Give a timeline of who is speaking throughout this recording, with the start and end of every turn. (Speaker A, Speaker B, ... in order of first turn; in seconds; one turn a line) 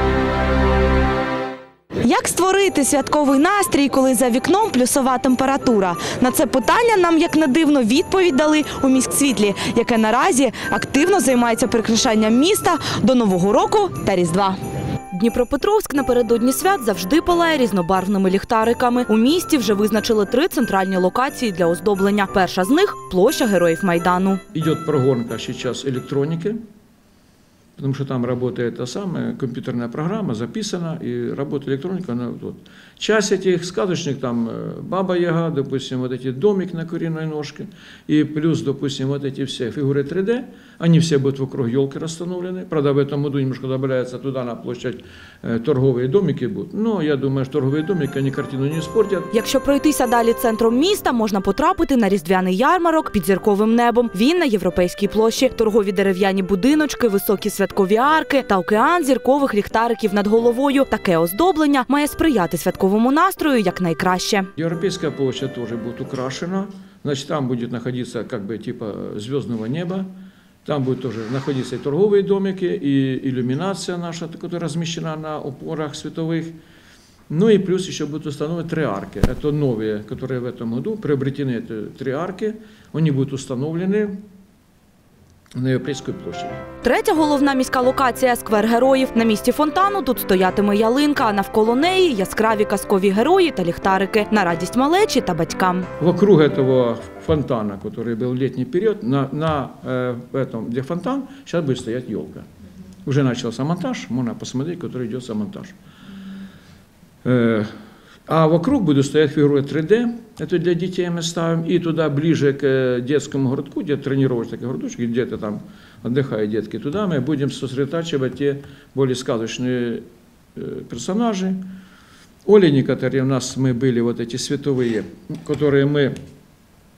Speaker A: 2.0-14.6
Speaker A: 15.1-24.4
Speaker B: 24.5-26.6
Speaker B: 27.8-49.3
Speaker A: 49.3-64.5
Speaker B: 64.6-70.1
Speaker B: 70.7-76.6
Speaker B: 77.3-84.2
Speaker B: 85.6-86.7
Speaker A: 86.8-95.9
Speaker B: 96.0-102.5
Speaker B: 103.0-105.8
Speaker B: 107.2-107.7
Speaker B: 108.3-121.6
Speaker B: 122.5-126.2